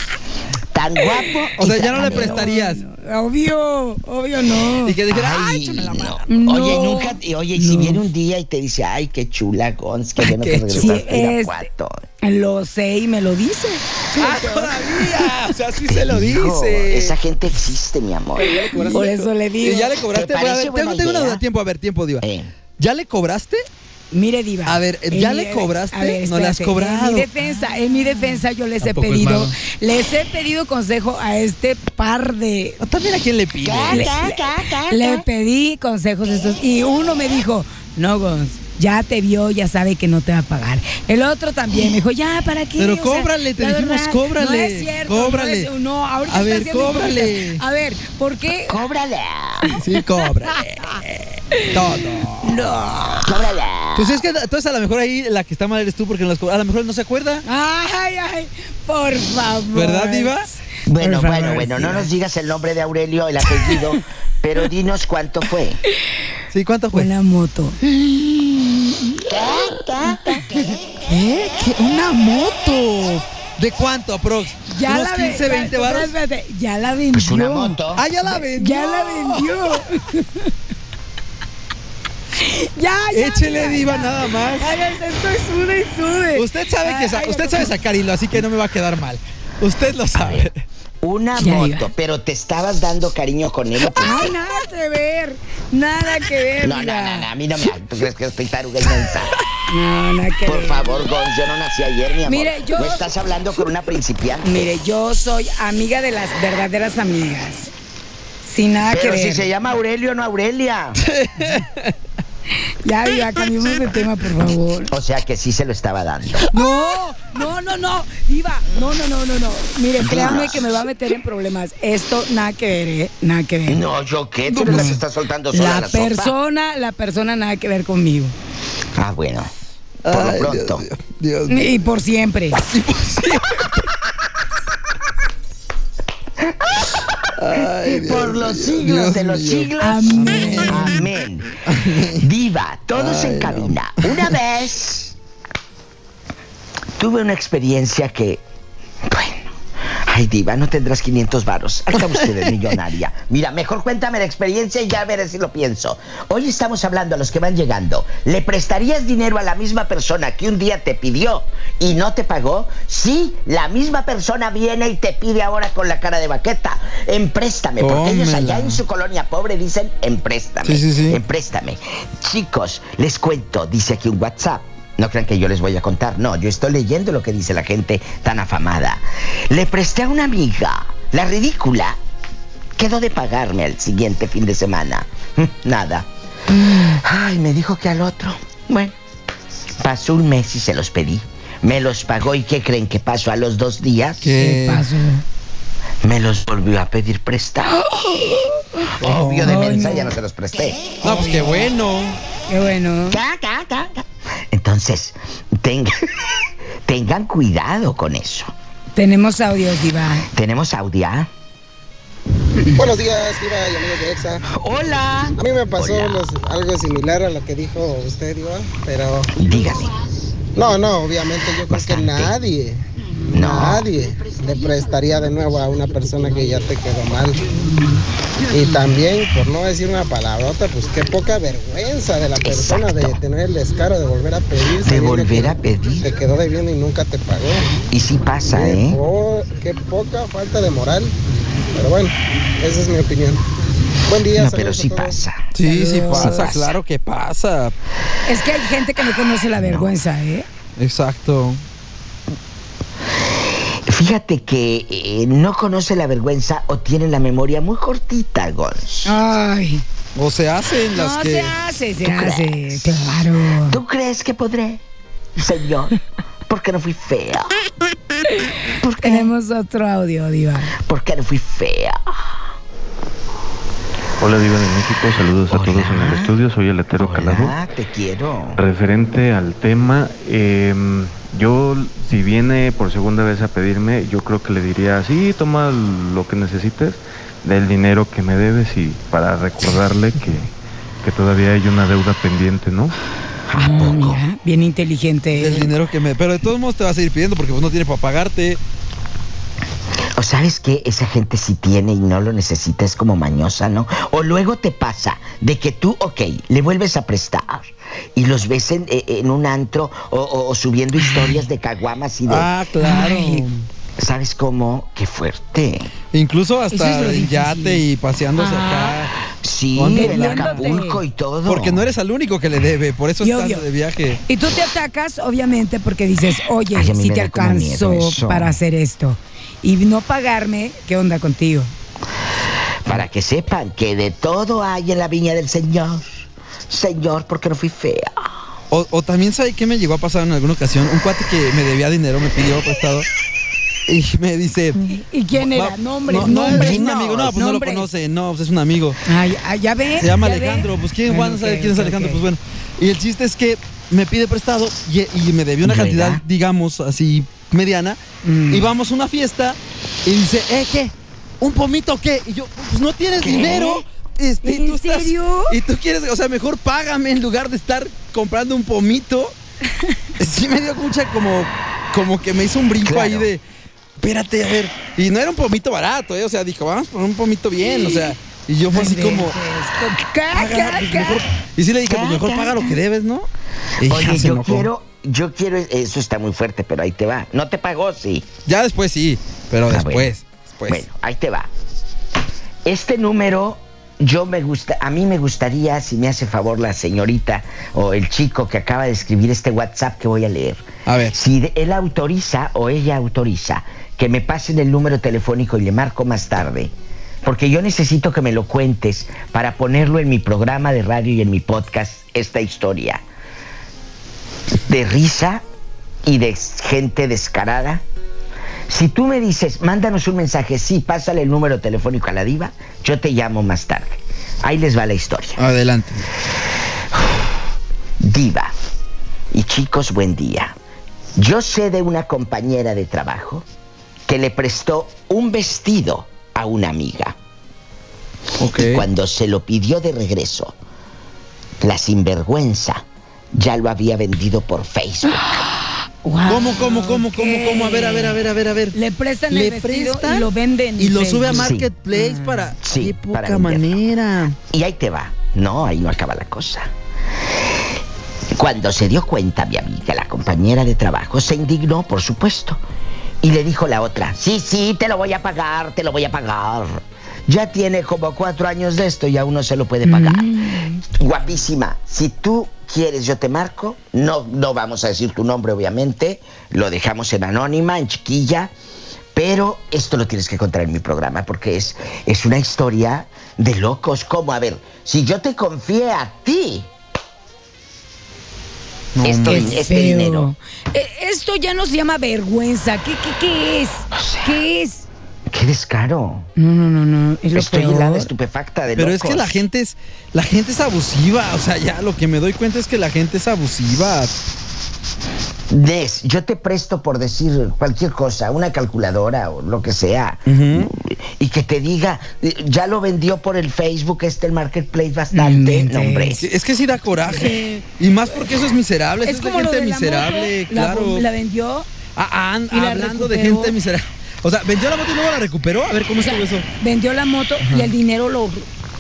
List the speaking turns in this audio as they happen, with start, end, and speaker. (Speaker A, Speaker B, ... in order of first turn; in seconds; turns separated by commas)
Speaker A: 0.7-2.5, Speaker B: 1.0-1.3, Speaker C: 1.6-2.8, Speaker B: 1.9-5.0, Speaker C: 4.8-6.3, Speaker A: 5.1-12.1, Speaker B: 6.3-8.0, Speaker C: 10.2-11.0, Speaker B: 10.8-11.7, Speaker B: 12.2-15.4, Speaker C: 14.1-17.1, Speaker A: 15.9-19.1, Speaker B: 18.4-19.9, Speaker C: 18.5-22.2, Speaker A: 20.1-21.4, Speaker A: 22.2-22.5, Speaker C: 22.8-23.6, Speaker B: 24.1-32.8, Speaker C: 24.7-27.3, Speaker C: 28.8-29.5, Speaker C: 32.8-34.1, Speaker A: 33.6-35.2, Speaker B: 33.9-48.8, Speaker C: 42.8-45.7, Speaker C: 46.3-47.6, Speaker A: 48.7-49.8, Speaker C: 49.8-52.7, Speaker B: 52.4-53.3, Speaker A: 53.2-54.2, Speaker C: 54.0-57.4, Speaker B: 57.5-62.1, Speaker C: 59.7-60.5, Speaker A: 60.9-65.8, Speaker C: 66.5-67.1, Speaker B: 66.9-67.8, Speaker C: 67.8-68.5, Speaker A: 69.3-70.8, Speaker C: 71.1-76.1, Speaker B: 74.7-80.5, Speaker A: 77.1-78.0, Speaker C: 78.0-79.8, Speaker B: 82.4-87.7, Speaker C: 83.1-84.8, Speaker C: 86.3-90.6, Speaker A: 90.2-90.5, Speaker A: 91.0-94.3, Speaker B: 91.4-91.9, Speaker B: 94.0-97.3, Speaker A: 96.6-99.3, Speaker B: 99.7-101.0, Speaker A: 100.5-104.7, Speaker B: 102.3-103.1, Speaker B: 104.5-107.7, Speaker B: 108.5-109.5, Speaker A: 108.9-111.0, Speaker C: 111.0-111.9, Speaker B: 112.8-114.9, Speaker A: 114.9-116.5, Speaker B: 116.5-123.8, Speaker A: 120.0-120.7, Speaker A: 123.7-126.3, Speaker C: 124.5-125.0, Speaker B: 124.6-125.0, Speaker B: 125.5-128.3, Speaker A: 129.0-129.5, Speaker C: 130.1-131.7, Speaker A: 130.1-130.8, Speaker B: 131.5-132.6, Speaker C: 132.7-133.9, Speaker A: 136.5-136.9, Speaker C: 137.3-141.1, Speaker A: 137.9-141.6, Speaker B: 139.8-141.0, Speaker C: 141.7-142.3, Speaker A: 142.2-145.2, Speaker C: 142.9-144.3, Speaker A: 147.0-148.4, Speaker A: 149.1-149.5, Speaker A: 150.1-182.0, Speaker C: 152.1-152.5, Speaker C: 167.8-168.8, Speaker C: 170.6-171.2, Speaker A: 182.8-186.1, Speaker B: 186.5-187.0, Speaker A: 186.8-188.9, Speaker A: 189.8-194.3, Speaker C: 194.2-194.9, Speaker B: 194.4-195.2, Speaker A: 196.0-197.9, Speaker B: 197.8-200.1, Speaker A: 199.0-200.9, Speaker B: 201.0-201.7, Speaker C: 201.0-202.2, Speaker B: 202.5-203.2, Speaker A: 203.1-206.3, Speaker A: 206.8-208.5, Speaker B: 209.0-210.3, Speaker A: 210.3-211.3, Speaker B: 212.6-212.8, Speaker D: 212.8-214.4, Speaker A: 214.5-216.2, Speaker D: 215.4-219.3, Speaker A: 219.3-219.9, Speaker D: 220.6-227.4, Speaker A: 221.7-222.3, Speaker A: 223.3-223.9, Speaker D: 228.5-237.8, Speaker A: 232.4-233.2, Speaker A: 234.8-236.1, Speaker A: 237.9-239.0, Speaker D: 238.5-241.2, Speaker D: 241.7-243.4, Speaker D: 244.1-245.2, Speaker A: 244.3-245.5, Speaker C: 245.5-247.7, Speaker B: 245.6-246.6, Speaker A: 246.1-246.8, Speaker B: 248.3-250.5, Speaker A: 249.6-249.9, Speaker C: 250.8-251.6, Speaker A: 253.9-259.2, Speaker B: 259.1-259.8, Speaker C: 260.2-261.5, Speaker B: 260.9-263.8, Speaker A: 262.0-264.8, Speaker A: 265.4-265.9, Speaker A: 266.5-267.6, Speaker A: 268.7-269.3, Speaker B: 269.0-270.7, Speaker A: 270.8-272.4, Speaker E: 274.2-277.6, Speaker A: 275.5-276.4, Speaker A: 276.9-278.6, Speaker E: 278.6-290.5, Speaker E: 291.0-292.9, Speaker A: 293.5-294.2, Speaker B: 293.6-295.7, Speaker C: 295.4-298.6, Speaker A: 300.2-312.5, Speaker C: 312.3-313.5, Speaker B: 312.8-313.5, Speaker A: 314.0-315.9, Speaker C: 316.1-319.1, Speaker B: 316.7-317.8, Speaker B: 318.4-319.0, Speaker A: 319.4-321.9, Speaker C: 319.8-320.8, Speaker B: 319.9-321.0, Speaker C: 321.5-324.2, Speaker B: 323.2-323.6, Speaker B: 324.3-331.7, Speaker A: 326.7-328.6, Speaker A: 332.8-338.3, Speaker C: 338.7-343.1, Speaker C: 343.9-349.0, Speaker B: 344.9-347.9, Speaker A: 346.2-347.4, Speaker B: 349.1-352.2, Speaker C: 350.0-358.0, Speaker A: 355.6-356.2, Speaker B: 358.2-358.7, Speaker C: 358.5-369.3, Speaker A: 363.2-363.9, Speaker B: 364.4-365.6, Speaker C: 370.2-373.4, Speaker A: 372.8-373.3, Speaker C: 374.0-379.4, Speaker B: 377.6-378.1, Speaker B: 378.7-381.2, Speaker C: 380.3-383.3, Speaker A: 381.8-382.8, Speaker C: 383.8-384.7, Speaker A: 383.8-388.3, Speaker C: 388.5-390.9, Speaker A: 389.7-390.1, Speaker A: 390.7-391.5, Speaker A: 392.6-413.0, Speaker C: 400.9-401.2, Speaker A: 414.5-415.4, Speaker A: 416.1-417.8, Speaker A: 418.7-425.4, Speaker C: 425.4-426.1, Speaker A: 426.9-427.3, Speaker A: 428.0-428.5, Speaker A: 429.3-430.6, Speaker A: 431.2-433.5, Speaker A: 434.1-437.2, Speaker C: 438.4-438.9, Speaker A: 438.4-440.6, Speaker A: 441.6-445.4, Speaker B: 445.1-448.2, Speaker C: 446.3-448.8, Speaker B: 448.7-452.5, Speaker C: 449.3-454.4, Speaker A: 451.3-451.7, Speaker A: 452.6-453.8, Speaker A: 454.5-456.7, Speaker A: 458.3-462.6, Speaker A: 463.2-478.5, Speaker B: 469.9-470.8, Speaker A: 479.1-486.7, Speaker C: 488.9-489.6, Speaker A: 489.0-490.3, Speaker B: 489.3-494.9, Speaker A: 493.9-494.4, Speaker A: 495.3-496.3, Speaker B: 496.4-498.1, Speaker A: 497.3-499.4, Speaker C: 498.8-504.1, Speaker A: 505.5-516.2, Speaker C: 510.3-510.7, Speaker B: 515.1-516.2, Speaker C: 516.2-521.1, Speaker B: 519.0-521.7, Speaker C: 522.0-526.5, Speaker B: 522.5-523.5, Speaker B: 526.0-528.5, Speaker C: 527.4-527.7